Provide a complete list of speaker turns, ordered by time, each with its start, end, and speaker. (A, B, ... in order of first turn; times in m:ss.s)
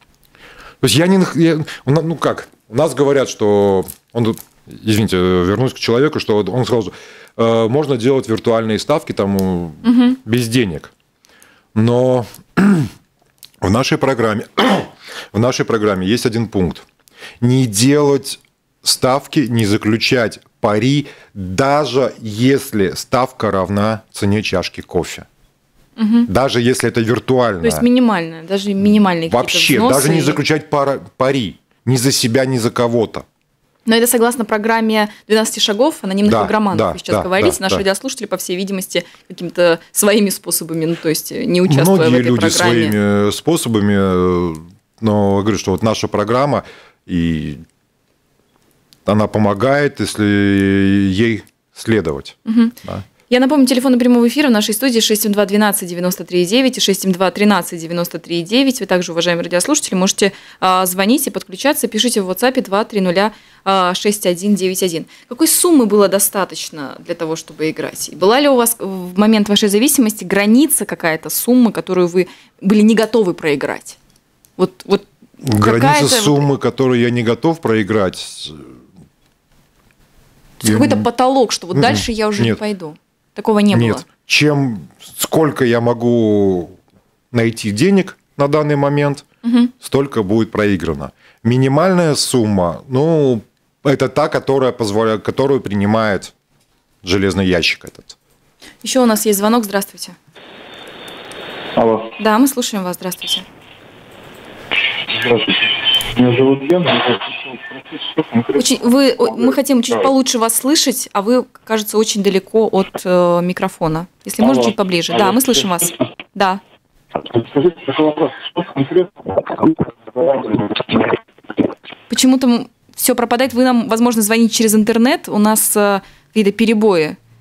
0:00.8-0:10.9 A
0:09.8-0:10.2 B
0:11.8-0:12.9 A
0:13.6-0:16.8 A
0:17.4-0:25.3 A
0:26.0-0:26.3 B
0:26.3-0:27.9 A
0:27.6-0:30.4 B
0:29.3-0:33.3 A
0:33.9-0:43.0 B
0:36.2-0:37.8 A
0:41.7-0:47.6 A
0:49.1-0:53.1 A
0:52.5-0:52.7 B
0:53.3-1:14.0 B
1:14.6-1:16.5 B
1:15.5-1:18.7 A
1:20.6-1:24.0 B
1:20.6-1:21.1 A
1:21.7-1:22.6 A
1:23.7-1:26.8 A
1:27.3-1:29.2 A
1:29.4-1:29.7 B
1:29.8-1:36.3 A
1:37.0-1:38.2 A
1:38.8-1:40.2 B
1:41.8-1:42.1 C
1:42.2-1:43.4 B
1:45.1-1:48.6 C
1:48.6-1:56.6 B
1:54.4-1:55.9 C
1:57.2-2:01.2 C
2:02.1-2:07.2 B